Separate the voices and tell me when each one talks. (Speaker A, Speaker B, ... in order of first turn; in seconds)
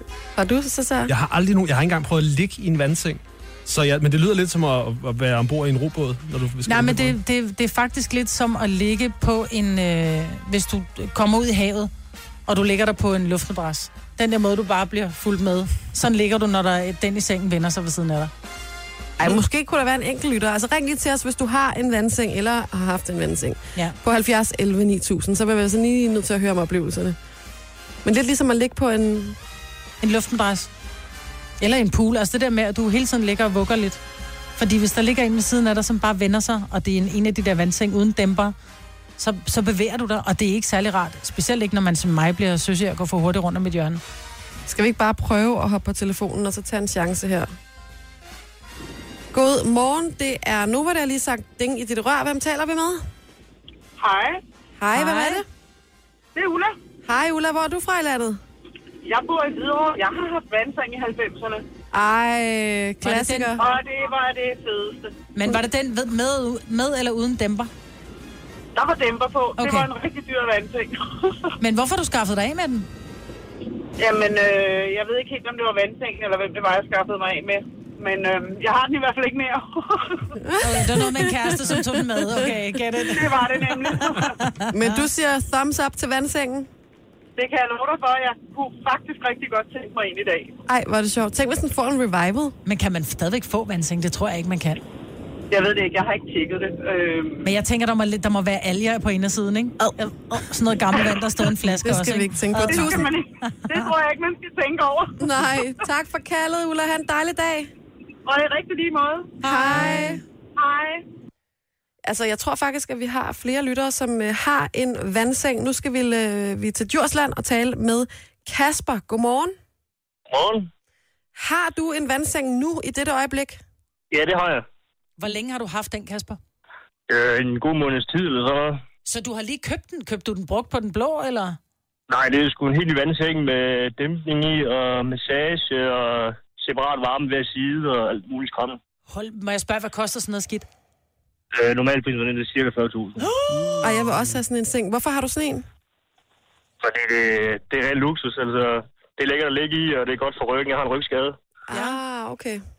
Speaker A: 0.3-1.1, 19.2-27.2, 28.1-29.4, 44.7-47.5, 49.3-53.0, 54.8-55.4, 57.1-58.4, 61.9-63.5, 80.5-81.5, 84.7-86.7, 90.7-92.6, 101.7-103.1, 105.2-107.7, 109.4-110.2, 112.0-119.6, 121.4-123.6, 143.8-145.7, 151.7-152.6
Speaker B: 1.1-7.2
Speaker C: 6.7-11.9, 12.5-18.3, 30.0-30.7, 31.6-34.0, 34.6-38.5, 39.2-44.0, 54.9-55.4, 63.0-63.5, 65.3-67.7, 69.6-69.9, 71.6-72.9, 80.6-85.0, 92.7-94.8, 97.5-103.9, 109.4-110.2, 125.2-126.4, 129.1-131.6, 139.1-140.7, 143.2-143.9, 151.7-152.0
Speaker D: 54.0-54.4, 56.4-56.8, 59.0-61.6, 63.6-65.1, 68.8-71.5, 74.0-80.2, 83.1-84.4, 87.4-90.6, 95.5-97.5, 102.7-105.3, 108.3-109.4, 110.6-111.0
Speaker E: 120.3-120.7, 124.1-124.7, 127.1-128.8, 132.1-138.8, 141.5-143.3, 146.8-151.3